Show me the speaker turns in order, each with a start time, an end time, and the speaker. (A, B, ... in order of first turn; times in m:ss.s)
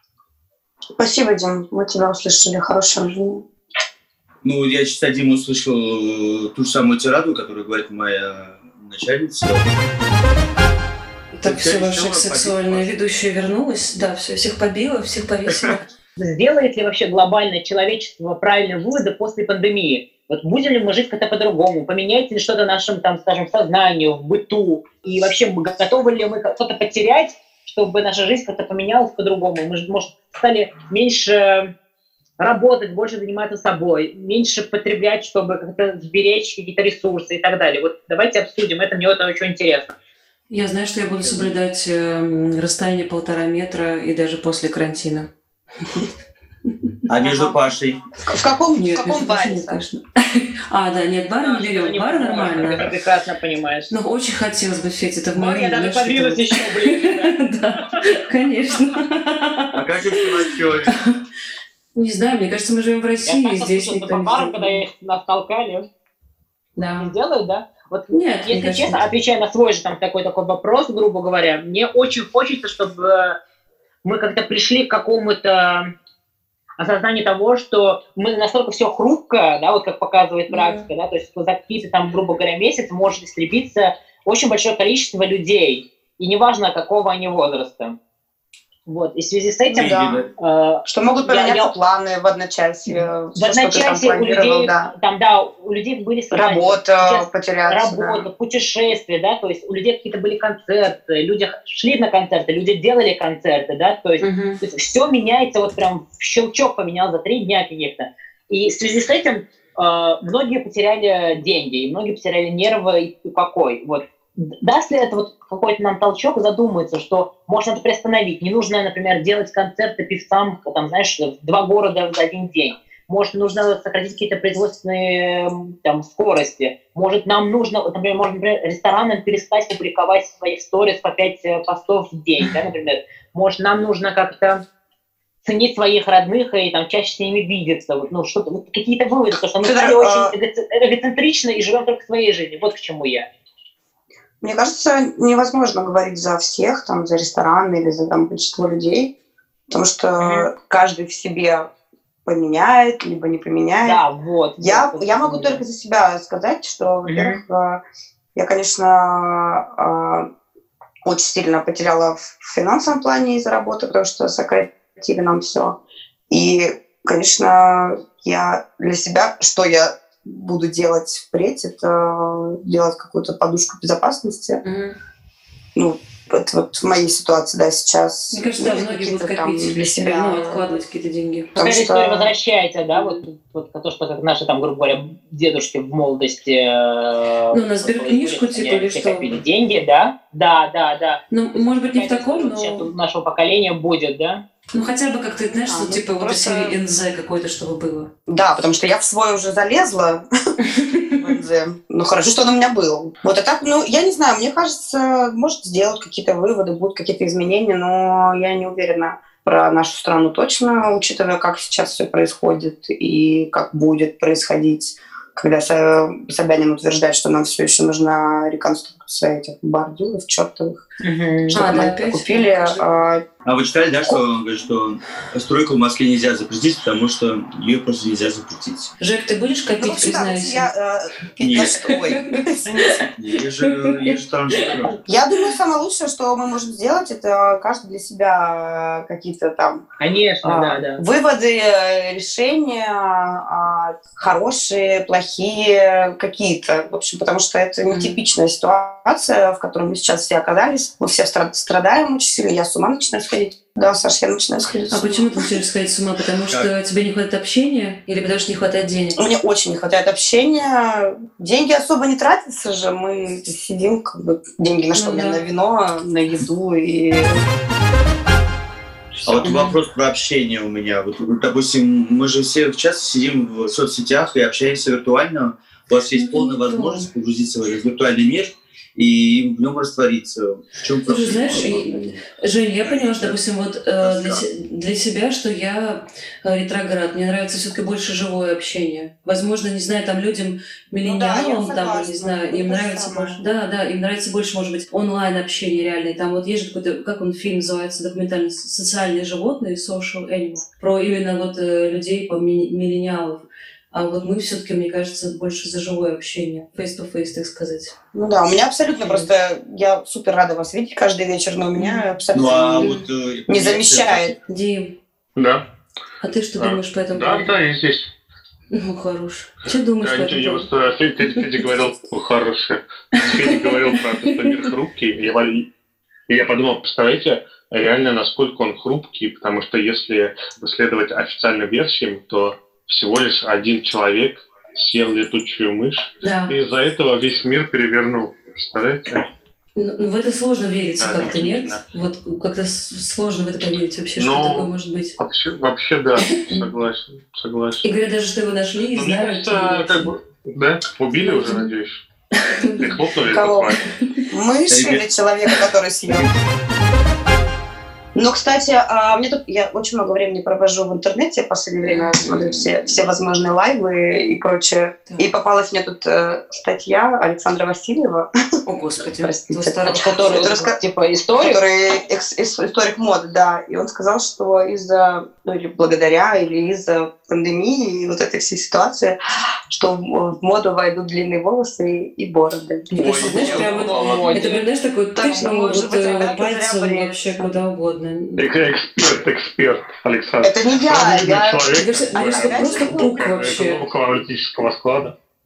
0:01.0-0:03.5 A
0:04.4-0:09.7 B
0:11.4-0:15.8 C
0:11.4-0:12.9 B
0:16.2-0:31.7 D
0:32.4-0:39.9 D
0:40.5-0:45.3 C
0:47.1-0:48.0 B
0:48.2-0:49.8 A
0:48.8-0:52.9 C
0:51.4-0:53.9 D
0:53.9-0:59.8 C
0:55.4-0:57.4 D
0:59.7-1:01.0 B
1:00.9-1:01.1 C
1:02.0-1:04.8 C
1:03.3-1:05.9 D
1:06.8-1:07.1 C
1:07.0-1:13.4 D
1:08.1-1:09.0 C
1:14.0-1:15.9 D
1:16.8-1:28.0 D
1:20.5-1:20.9 C
1:28.9-1:31.7 D
1:29.7-1:30.2 A
1:29.8-1:30.2 B
1:30.9-1:34.9 A
1:32.9-2:14.6 D
1:36.3-1:38.3 A
1:44.2-1:44.6 C
2:15.4-2:23.2 D
2:19.6-2:20.3 A
2:24.4-2:29.1 A
2:29.7-2:31.7 A
2:30.2-2:30.5 D
2:32.2-2:34.0 A
2:33.8-2:35.6 D
2:34.6-2:37.8 A
2:37.0-2:37.4 D
2:38.4-2:40.3 A
2:41.0-2:45.8 A
2:46.3-2:54.6 A
2:54.6-2:55.0 C
2:55.8-3:00.6 A
2:58.3-3:01.5 C
3:01.6-3:02.3 A
3:01.6-3:14.4 D
3:07.5-3:09.4 C
3:11.3-3:12.9 C
3:14.7-3:18.1 C
3:15.7-3:16.8 A
3:18.3-3:20.2 A
3:20.6-3:21.2 C
3:21.2-3:40.8 A
3:41.0-3:41.6 D
3:41.5-3:43.2 A
3:41.5-3:42.8 C
3:43.4-3:48.9 B
3:49.0-3:50.7 C
3:49.8-3:53.1 A
3:51.4-3:51.9 B
3:52.0-3:53.0 C
3:53.1-3:55.0 B
3:53.7-3:54.8 C
3:55.0-3:59.8 A
4:00.0-4:01.0 D
4:00.4-4:15.4 A
4:07.9-4:08.2 C
4:14.9-4:19.2 C
4:19.2-4:27.4 A
4:24.9-4:25.4 C
4:29.2-4:42.2 B
4:29.4-4:29.8 C
4:36.1-4:37.1 C
4:41.1-5:07.9 C
4:42.9-4:43.4 B
4:44.0-4:44.4 B
4:51.0-4:53.4 A
5:08.1-5:13.0 A
5:09.0-5:09.3 C
5:11.8-5:12.1 C
5:12.3-5:14.4 B
5:12.8-5:13.1 C
5:13.5-5:14.3 A
5:14.5-5:15.0 C
5:15.4-5:15.6 E
5:16.2-5:17.5 C
5:16.6-5:18.1 E
5:18.7-5:20.7 C
5:20.0-5:25.7 E
5:23.2-5:24.6 C
5:26.3-5:39.2 E
5:36.2-5:36.6 C
5:39.8-5:45.2 C
5:41.0-5:41.8 E
5:44.2-5:47.9 E
5:46.3-5:46.6 C
5:47.8-5:50.1 C
5:48.9-5:52.0 E
5:51.2-5:51.7 C
5:52.4-5:53.0 C
5:52.8-5:53.8 E
5:53.3-5:53.7 A
5:54.3-5:56.3 A
5:54.7-5:55.0 B
5:58.2-6:08.3 A
6:01.8-6:02.2 C
6:02.4-6:02.9 D
6:08.7-6:10.6 C
6:09.2-6:10.8 A
6:09.9-6:11.6 D
6:11.4-6:19.2 A
6:19.7-6:22.9 A
6:22.9-6:28.5 C
6:23.0-6:24.4 B
6:23.2-6:24.6 D
6:25.2-6:27.5 A
6:28.4-6:35.1 E
6:30.4-6:33.3 A
6:31.8-6:33.8 C